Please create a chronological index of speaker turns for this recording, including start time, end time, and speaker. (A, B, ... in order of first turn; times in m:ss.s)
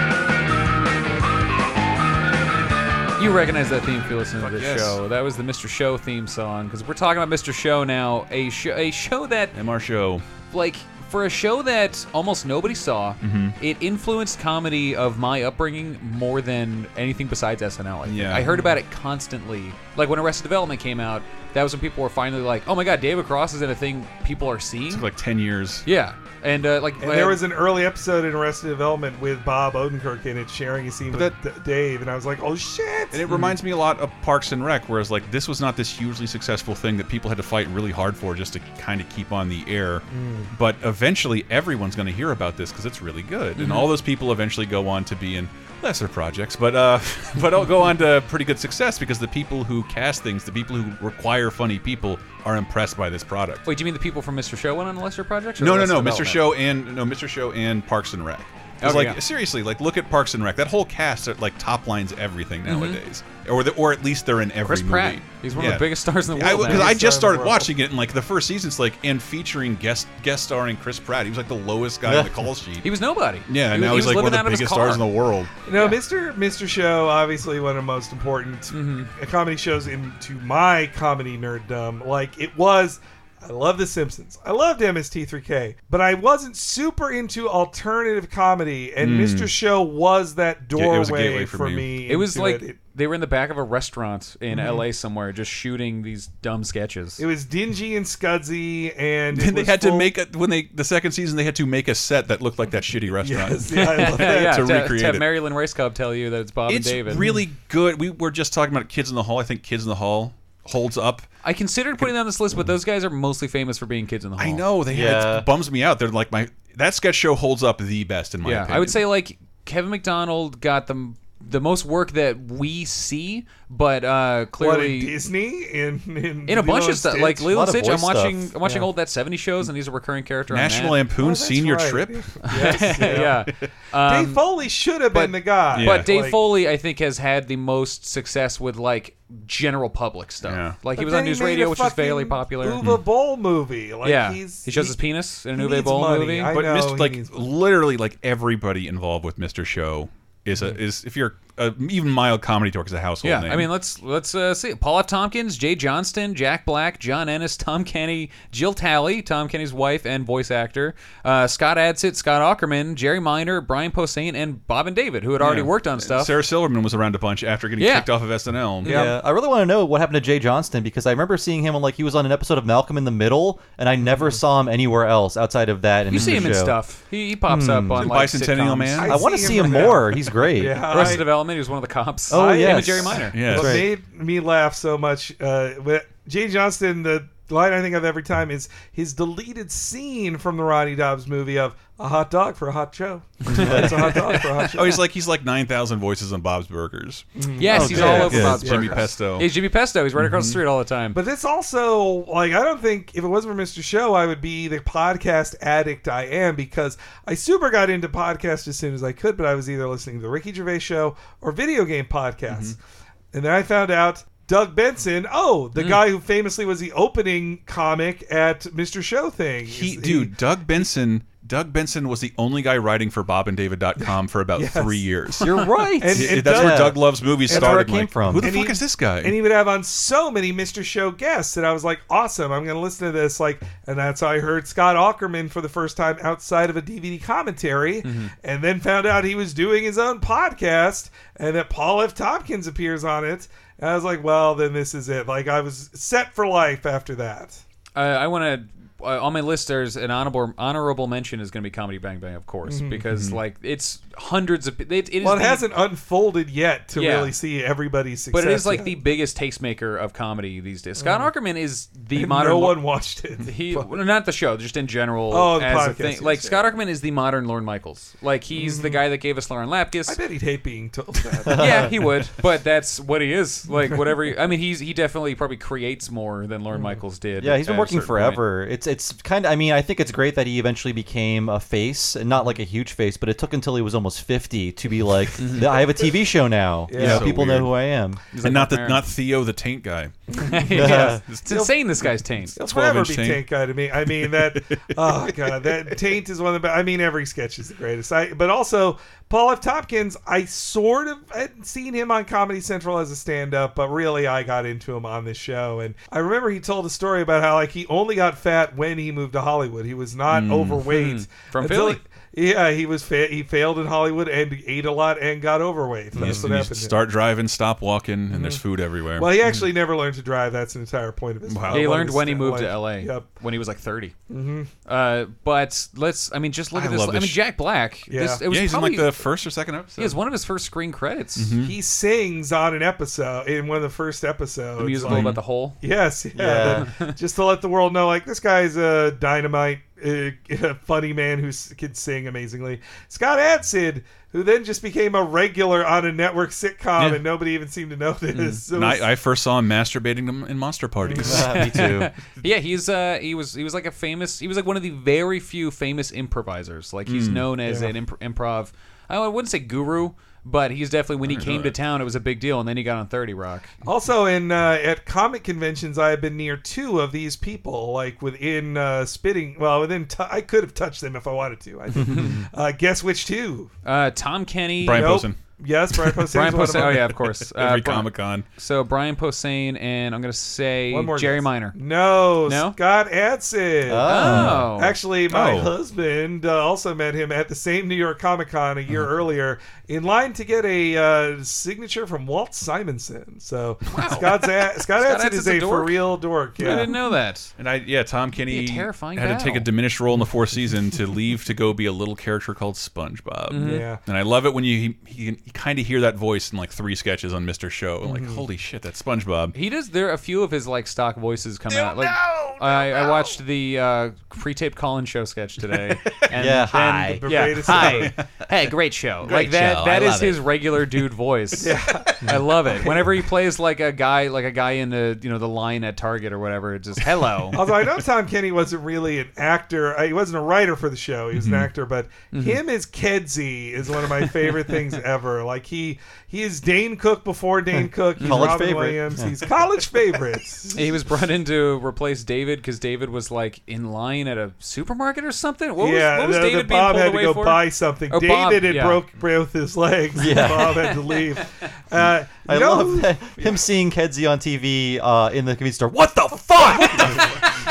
0:03.2-0:09.5 A
0:04.4-0:05.0 B
0:09.5-0:10.2 B
0:10.5-0:25.0 A
0:13.2-0:13.6 B
0:18.0-0:18.5 B
0:18.5-0:18.8 C
0:24.9-0:25.8 B
0:25.8-0:27.4 A
0:27.0-0:33.2 C
0:33.1-0:53.6 B
0:33.3-0:33.5 A
0:40.1-0:40.5 C
0:43.6-0:43.9 A
0:53.6-0:56.5 A
0:55.6-1:12.8 B
0:58.8-0:59.2 A
1:02.7-1:03.0 A
1:04.6-1:07.0 A
1:06.4-1:07.7 C
1:12.0-1:12.3 D
1:12.8-1:15.0 A
1:13.5-1:15.5 B
1:15.7-1:32.8 C
1:18.7-1:19.1 A
1:29.0-1:29.5 B
1:30.7-1:31.9 B
1:32.1-1:37.2 A
1:34.5-1:34.8 C
1:37.2-1:40.1 C
1:39.3-1:45.2 B
1:43.2-1:44.6 C
1:43.7-1:47.4 A
1:46.7-1:51.3 B
1:51.4-1:54.6 A
1:54.4-1:59.0 B
1:54.9-1:55.5 D
1:58.4-2:05.1 A
2:04.6-2:07.5 C
2:06.5-2:11.0 A
2:07.5-2:08.5 D
2:10.5-2:12.3 B
2:11.2-2:13.4 C
2:12.4-2:14.4 A
2:14.0-2:16.4 C
2:15.1-2:22.8 A
2:15.7-2:16.1 B
2:20.4-2:20.8 B
2:21.0-2:25.0 C
2:24.0-2:26.6 A
2:25.5-2:27.5 C
2:26.5-2:33.7 B
2:33.2-2:46.3 A
2:45.4-2:48.9 B
2:47.8-2:48.1 A
2:48.8-2:49.1 A
2:48.8-2:49.1 C
2:48.8-2:56.8 D
2:54.0-2:54.4 C
2:56.1-2:59.2 A
2:57.5-2:58.2 D
2:58.0-2:59.1 B
2:59.0-3:01.2 C
2:59.1-3:01.2 D
3:00.9-3:03.4 A
3:02.3-3:03.9 D
3:02.3-3:15.0 C
3:03.3-3:03.8 B
3:13.5-3:14.1 D
3:14.6-3:19.5 B
3:17.4-3:19.1 C
3:17.6-3:21.2 A
3:17.7-3:18.6 D
3:20.2-3:20.6 B
3:21.1-3:32.8 C
3:32.5-3:32.7 B
3:33.3-3:40.3 C
3:35.8-3:36.0 A
3:39.7-3:49.3 B
3:44.6-4:07.6 C
3:45.4-3:48.5 D
3:58.0-3:58.3 A
4:07.9-4:15.7 A
4:12.7-4:13.0 C
4:13.1-4:13.4 B
4:15.2-4:19.0 C
4:16.9-4:17.3 A
4:18.3-4:22.8 A
4:21.0-4:21.3 C
4:22.1-4:23.9 C
4:23.4-4:30.2 A
4:25.3-4:26.7 C
4:28.5-4:29.0 C
4:30.1-4:31.9 C
4:31.5-4:31.9 D
4:31.5-4:38.4 A
4:36.7-4:37.0 C
4:37.4-4:48.2 D
4:45.4-4:45.8 A
4:46.9-4:47.3 C
4:47.0-4:47.7 B
4:48.3-4:49.0 A
4:48.4-4:50.1 B
4:50.4-4:51.7 C
4:50.5-4:52.5 A
4:50.7-4:51.2 D
4:51.2-4:51.6 B
4:52.5-5:17.0 C
4:52.6-4:53.4 B
4:54.2-4:55.2 B
5:10.3-5:10.8 B
5:10.8-5:12.0 A
5:16.2-5:19.3 B
5:18.3-5:18.6 C
5:19.2-5:23.2 C
5:21.5-5:21.9 B
5:21.7-5:24.1 A
5:24.3-5:24.7 C
5:24.8-5:29.2 A
5:26.7-5:27.4 B
5:28.1-5:28.4 C
5:28.5-5:30.2 B
5:30.0-5:31.5 A
5:31.4-5:31.7 B
5:31.6-5:49.1 C
5:34.8-5:35.8 A
5:35.1-5:35.4 B
5:36.3-5:36.9 D
5:36.8-5:37.1 A
5:48.3-5:48.6 A
5:48.7-5:51.8 B
5:51.0-5:51.4 C
5:51.2-5:52.1 D
5:51.4-6:03.7 A
5:57.1-5:57.4 B
5:57.6-5:57.9 C
6:01.2-6:01.7 B
6:03.8-6:13.7 C
6:13.8-6:15.2 A
6:14.8-6:15.4 B
6:14.9-6:17.1 C
6:16.2-6:21.8 A
6:16.8-6:18.4 B
6:20.9-6:36.9 C
6:22.4-6:22.8 A
6:23.8-6:24.7 D
6:24.0-6:25.0 A
6:24.2-6:24.7 B
6:25.3-6:25.7 B
6:33.9-6:34.2 B
6:33.9-6:36.0 A
6:36.6-6:37.5 A
6:37.6-6:49.6 B
6:38.5-6:39.7 A
6:43.5-6:43.8 A
6:43.6-6:44.0 C
6:48.0-6:48.4 C
6:49.5-7:07.6 A
6:56.3-6:57.2 D
6:57.2-6:58.1 C
6:57.8-6:58.2 B
6:59.3-7:00.3 B
6:59.5-7:00.2 D
7:01.6-7:02.9 C
7:07.5-7:20.8 C
7:11.3-7:11.7 B
7:12.3-7:12.6 A
7:14.2-7:14.8 A
7:17.7-7:19.4 D
7:18.2-7:18.6 A
7:20.7-7:29.0 A
7:25.8-7:33.6 C
7:30.2-7:30.9 D
7:30.3-7:31.4 A
7:32.4-7:37.3 D
7:36.7-7:37.0 C
7:36.7-7:37.2 A